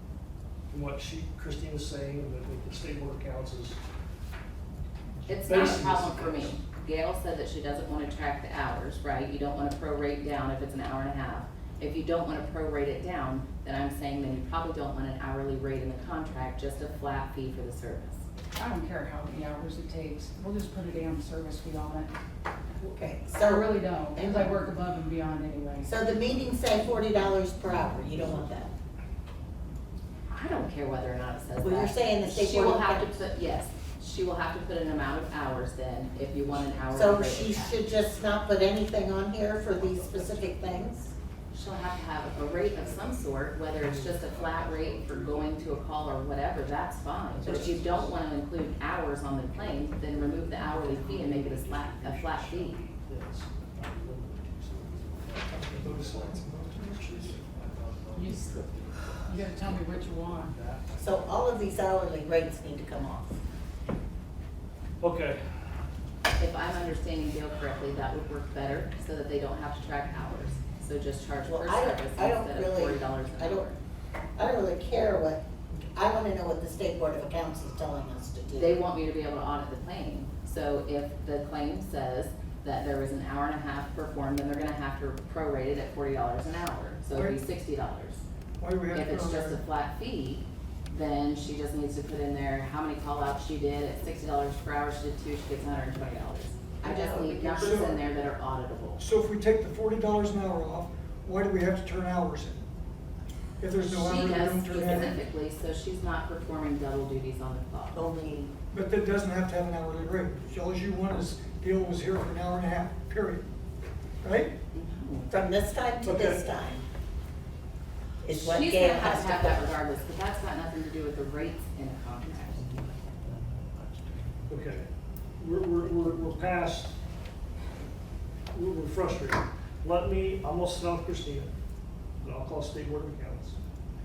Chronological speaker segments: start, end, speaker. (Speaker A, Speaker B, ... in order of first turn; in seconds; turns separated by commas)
Speaker A: 0.7-3.8, Speaker B: 5.3-18.2, Speaker A: 5.3-6.6, Speaker C: 18.6-22.1, Speaker D: 22.8-24.6, Speaker C: 23.3-25.9, Speaker D: 25.8-28.7, Speaker B: 30.3-37.8, Speaker D: 31.6-33.1, Speaker D: 36.9-41.1, Speaker A: 39.7-41.1, Speaker B: 41.5-52.8, Speaker A: 42.4-43.2, Speaker A: 43.8-45.9, Speaker A: 47.3-48.2, Speaker A: 50.0-61.8, Speaker E: 55.5-57.4, Speaker C: 58.1-58.7, Speaker C: 59.3-60.6, Speaker D: 61.0-63.4, Speaker A: 65.0-65.4, Speaker B: 66.4-73.8, Speaker D: 71.5-73.7, Speaker D: 74.4-75.4, Speaker D: 75.9-78.8, Speaker B: 78.5-88.2, Speaker E: 87.1-87.4, Speaker E: 88.6-89.6, Speaker B: 88.9-99.0, Speaker D: 96.8-98.0, Speaker E: 97.6-98.0, Speaker E: 99.0-102.7, Speaker E: 103.6-105.2, Speaker B: 103.8-108.0, Speaker D: 107.9-108.5, Speaker E: 108.7-113.5, Speaker E: 114.2-114.5, Speaker B: 114.7-115.3, Speaker D: 115.3-116.8, Speaker A: 116.0-116.5, Speaker D: 118.2-119.7, Speaker B: 118.3-122.7, Speaker A: 124.5-124.9, Speaker A: 125.4-127.0, Speaker A: 128.5-131.6, Speaker A: 132.2-133.6